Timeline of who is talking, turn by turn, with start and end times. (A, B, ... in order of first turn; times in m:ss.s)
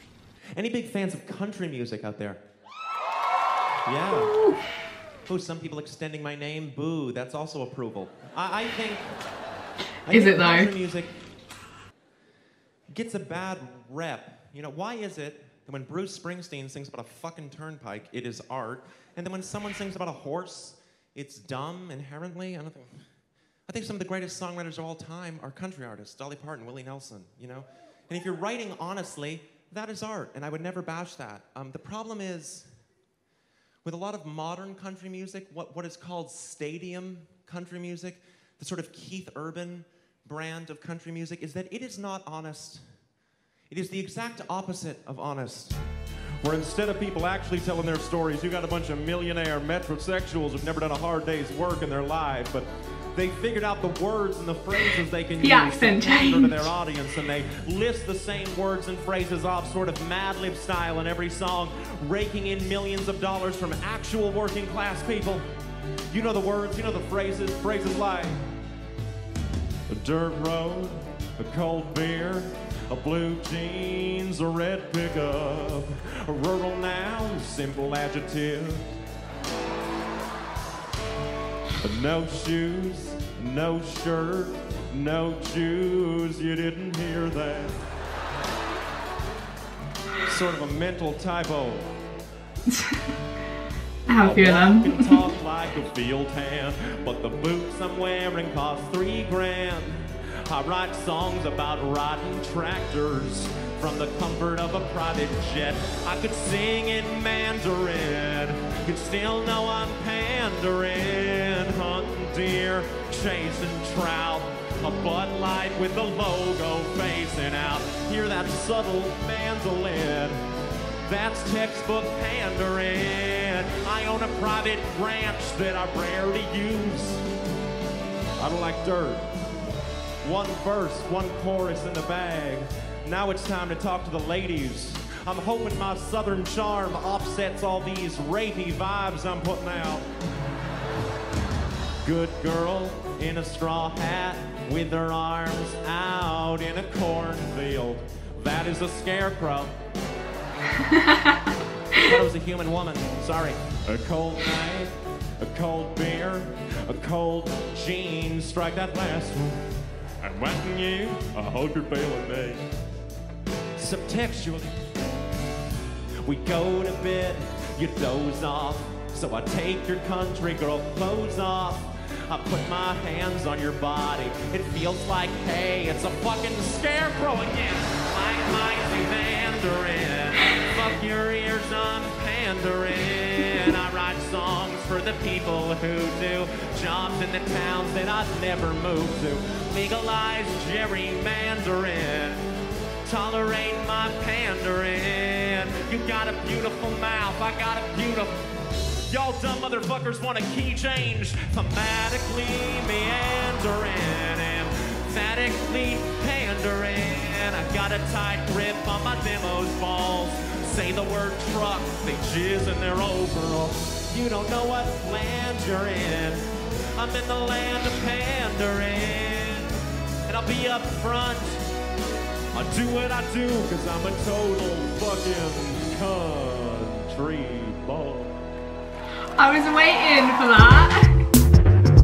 0:00.6-0:02.4 A
0:03.8-0:04.3 A
0:04.1-0:04.6 B
0:05.3-0:09.1 A
0:10.0-0:11.1 A
0:10.1-0:10.7 B
0:12.9-0:23.1 A
0:23.7-0:32.7 A
0:33.8-0:42.8 A
0:43.7-0:45.8 A
0:46.4-1:05.4 A
0:55.4-0:56.7 B
1:06.1-1:08.4 A
1:09.9-1:18.8 A
1:21.8-1:27.8 A
1:30.3-1:31.9 A
1:32.7-1:33.1 B
1:34.1-1:35.2 B
1:34.2-2:00.4 A
2:01.0-2:07.2 A
2:08.4-2:09.3 A
2:10.2-2:20.0 A
2:22.0-2:29.7 A
2:30.8-2:32.1 B
2:31.9-2:39.6 A
2:40.2-2:42.6 A
2:43.8-2:44.7 A
2:46.2-3:12.4 A
3:13.0-3:18.5 A
3:19.1-3:36.4 A
3:37.0-3:39.7 A
3:40.2-3:41.6 A
3:42.5-3:48.3 A
3:49.4-3:51.2 B